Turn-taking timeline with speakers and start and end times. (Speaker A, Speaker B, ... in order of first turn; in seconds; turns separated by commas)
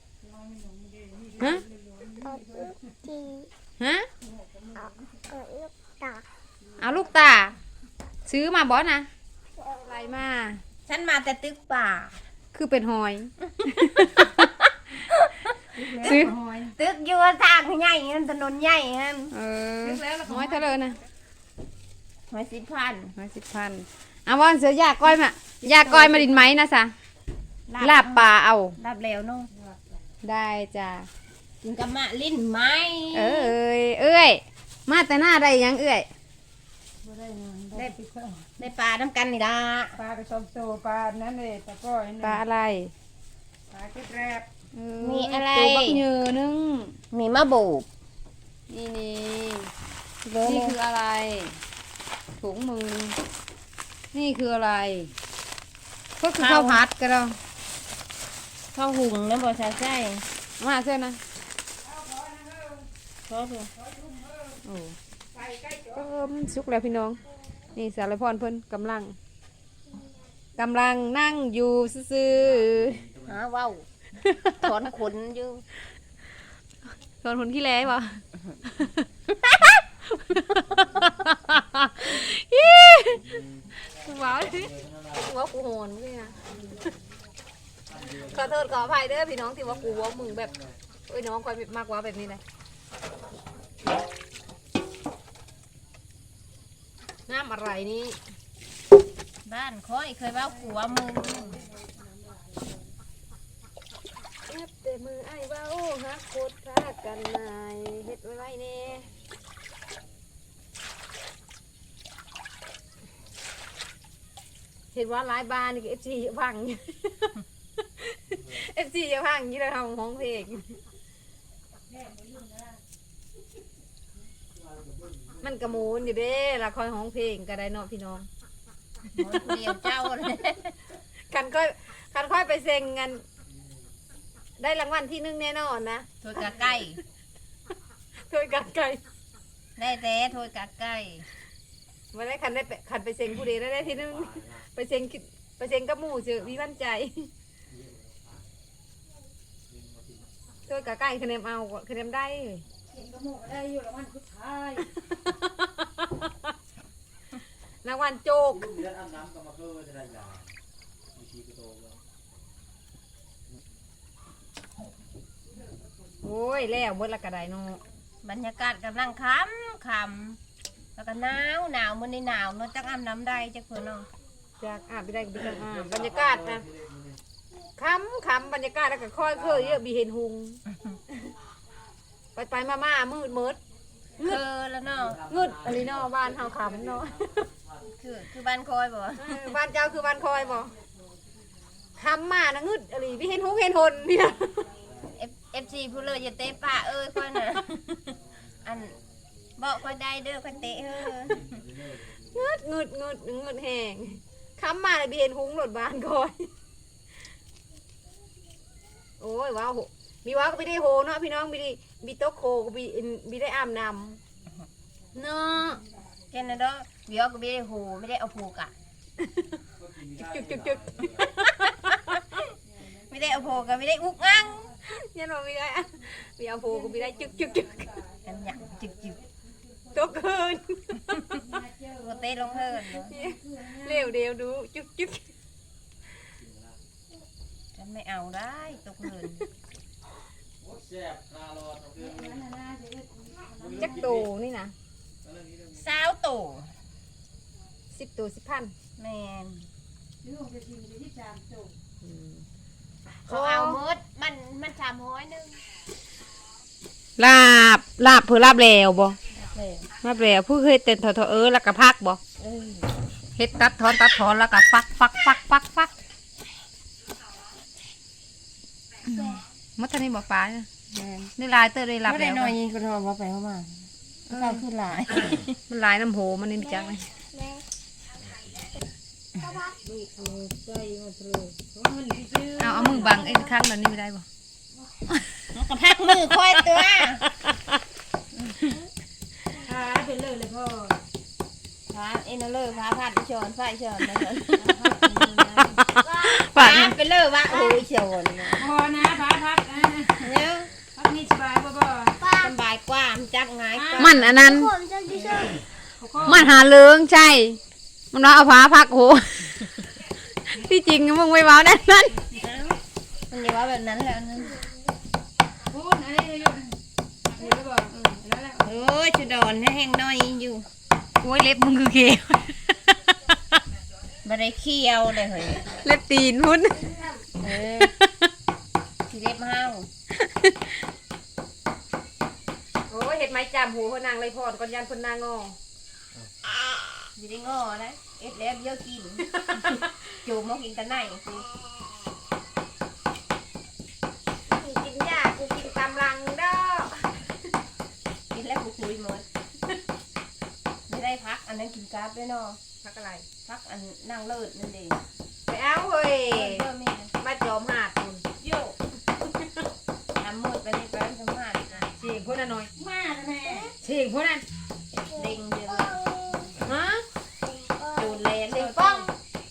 Speaker A: 0.2-2.8, Speaker B: 1.4-1.6, Speaker C: 2.2-3.5, Speaker B: 3.8-4.1, Speaker A: 4.3-4.9, Speaker C: 4.8-6.2, Speaker B: 6.8-7.5, Speaker B: 8.3-9.1, Speaker C: 9.6-10.0, Speaker B: 9.8-10.6, Speaker D: 10.9-12.2, Speaker B: 12.5-14.4, Speaker D: 15.1-19.3, Speaker A: 15.7-16.8, Speaker B: 16.0-16.3, Speaker B: 19.3-21.0, Speaker A: 19.8-21.0, Speaker D: 22.3-23.1, Speaker B: 23.1-26.9, Speaker D: 25.6-26.4, Speaker D: 27.7-29.5, Speaker B: 27.8-28.8, Speaker A: 29.5-29.8, Speaker B: 30.2-31.1, Speaker D: 31.6-33.5, Speaker B: 33.1-36.1, Speaker A: 37.0-38.5, Speaker D: 38.6-40.0, Speaker A: 40.0-42.4, Speaker B: 42.2-42.9, Speaker A: 43.7-44.5, Speaker B: 44.7-47.0, Speaker D: 45.0-46.0, Speaker D: 47.1-47.9, Speaker B: 48.7-49.7, Speaker B: 50.3-51.6, Speaker D: 50.3-50.8, Speaker B: 52.4-53.2, Speaker B: 54.1-55.1, Speaker B: 56.2-57.4, Speaker D: 56.4-56.8, Speaker D: 58.7-60.2, Speaker B: 60.6-61.2, Speaker A: 61.8-62.9, Speaker D: 63.3-63.7, Speaker A: 63.8-64.6, Speaker B: 64.7-65.0, Speaker A: 65.3-66.3, Speaker B: 66.0-67.2, Speaker B: 67.8-69.2, Speaker B: 70.6-73.0, Speaker E: 72.3-73.5, Speaker D: 73.3-73.9, Speaker B: 74.2-74.5, Speaker D: 74.6-75.7, Speaker B: 77.2-79.0, Speaker B: 79.7-83.4, Speaker E: 80.7-81.1, Speaker E: 83.2-85.3, Speaker B: 84.0-86.4, Speaker E: 87.9-90.8, Speaker B: 88.3-90.5, Speaker B: 91.1-92.4, Speaker B: 97.3-98.2, Speaker D: 99.5-101.6, Speaker A: 100.3-102.9, Speaker B: 104.5-109.1, Speaker E: 109.0-109.3, Speaker B: 114.9-117.3, Speaker B: 118.0-120.7, Speaker E: 118.3-118.6, Speaker A: 121.9-122.8, Speaker E: 124.5-126.3, Speaker B: 125.4-128.3, Speaker D: 129.2-130.8, Speaker B: 131.3-133.2, Speaker B: 134.6-136.1, Speaker D: 136.2-137.0, Speaker B: 138.3-139.0, Speaker D: 139.8-141.2, Speaker B: 142.1-147.3, Speaker E: 143.8-144.7, Speaker E: 147.7-148.5, Speaker E: 149.7-150.3, Speaker B: 150.7-152.6, Speaker A: 152.9-154.9, Speaker B: 155.3-155.7, Speaker B: 157.8-158.7, Speaker E: 158.5-160.6, Speaker E: 161.1-162.0, Speaker B: 166.2-167.8, Speaker D: 168.2-170.4, Speaker D: 171.0-174.1, Speaker B: 174.6-176.7, Speaker E: 175.3-177.2, Speaker B: 177.8-180.6, Speaker E: 179.3-179.8, Speaker B: 182.3-183.6, Speaker D: 184.2-185.2, Speaker E: 185.0-187.9, Speaker B: 185.3-187.4, Speaker D: 188.0-189.3, Speaker B: 189.2-190.7, Speaker B: 192.0-194.7, Speaker E: 194.8-195.2, Speaker D: 195.2-199.0, Speaker E: 198.1-199.6, Speaker D: 199.6-201.4, Speaker E: 201.2-202.6, Speaker B: 202.3-206.5, Speaker B: 209.2-214.2, Speaker B: 215.1-215.8, Speaker D: 216.3-218.7, Speaker E: 219.8-221.3, Speaker B: 220.2-222.0, Speaker A: 222.7-223.8, Speaker D: 223.1-224.7, Speaker B: 224.8-227.8, Speaker A: 226.6-230.4, Speaker D: 228.2-229.2, Speaker B: 229.9-231.2, Speaker A: 231.3-234.2, Speaker D: 232.0-233.1, Speaker B: 233.1-235.3, Speaker E: 236.4-236.8, Speaker D: 237.8-239.4, Speaker E: 240.6-242.4, Speaker A: 242.0-244.1, Speaker E: 243.6-244.3, Speaker B: 243.8-244.7, Speaker E: 245.2-245.9, Speaker D: 245.8-246.7, Speaker B: 247.9-248.7, Speaker D: 249.0-249.7, Speaker A: 250.2-251.8, Speaker B: 252.0-252.4, Speaker B: 253.2-253.8, Speaker D: 253.3-255.6, Speaker B: 257.2-259.2, Speaker D: 259.3-259.9, Speaker B: 260.0-262.2, Speaker D: 262.4-262.9, Speaker B: 263.4-265.9, Speaker B: 269.1-270.7, Speaker D: 270.9-271.3, Speaker B: 271.4-272.6, Speaker D: 272.1-275.6, Speaker B: 274.3-274.6, Speaker B: 275.7-277.1, Speaker C: 276.6-277.6, Speaker C: 279.4-279.8, Speaker A: 279.9-283.4, Speaker B: 282.6-284.2, Speaker C: 283.2-283.4, Speaker D: 285.5-287.2, Speaker B: 286.7-287.5, Speaker A: 289.6-291.0, Speaker D: 291.9-295.8, Speaker A: 294.5-295.8, Speaker B: 296.0-297.0, Speaker C: 296.0-296.5, Speaker D: 296.5-298.7, Speaker C: 297.4-297.8, Speaker A: 298.6-300.3, Speaker D: 300.2-300.7, Speaker A: 300.9-302.2, Speaker C: 302.2-302.6, Speaker D: 302.4-304.3, Speaker A: 303.7-304.2, Speaker B: 304.0-304.7, Speaker C: 304.3-305.6, Speaker A: 305.2-305.4, Speaker A: 306.0-306.5, Speaker B: 306.2-307.6, Speaker B: 308.1-309.7, Speaker B: 310.5-312.2, Speaker D: 312.4-312.8, Speaker D: 313.3-314.6, Speaker A: 315.7-318.7, Speaker D: 318.6-320.7, Speaker B: 321.2-322.7, Speaker D: 324.2-325.7, Speaker B: 325.8-326.9, Speaker D: 327.4-327.9, Speaker B: 327.8-328.1, Speaker D: 329.1-329.9, Speaker B: 330.2-330.7, Speaker B: 332.9-335.6, Speaker D: 337.2-341.5, Speaker B: 344.5-347.1, Speaker D: 348.3-349.2, Speaker D: 350.9-352.6, Speaker B: 352.8-353.3, Speaker D: 353.4-355.0, Speaker B: 355.5-356.6, Speaker D: 356.3-357.1, Speaker B: 357.2-358.2, Speaker D: 358.4-358.8, Speaker D: 360.2-361.9, Speaker B: 362.0-362.7, Speaker A: 362.8-363.7, Speaker C: 363.4-363.7, Speaker B: 363.8-364.4, Speaker C: 365.1-366.6, Speaker D: 365.2-366.5, Speaker B: 366.6-367.0, Speaker C: 367.4-368.2, Speaker D: 368.0-369.1, Speaker B: 368.5-369.1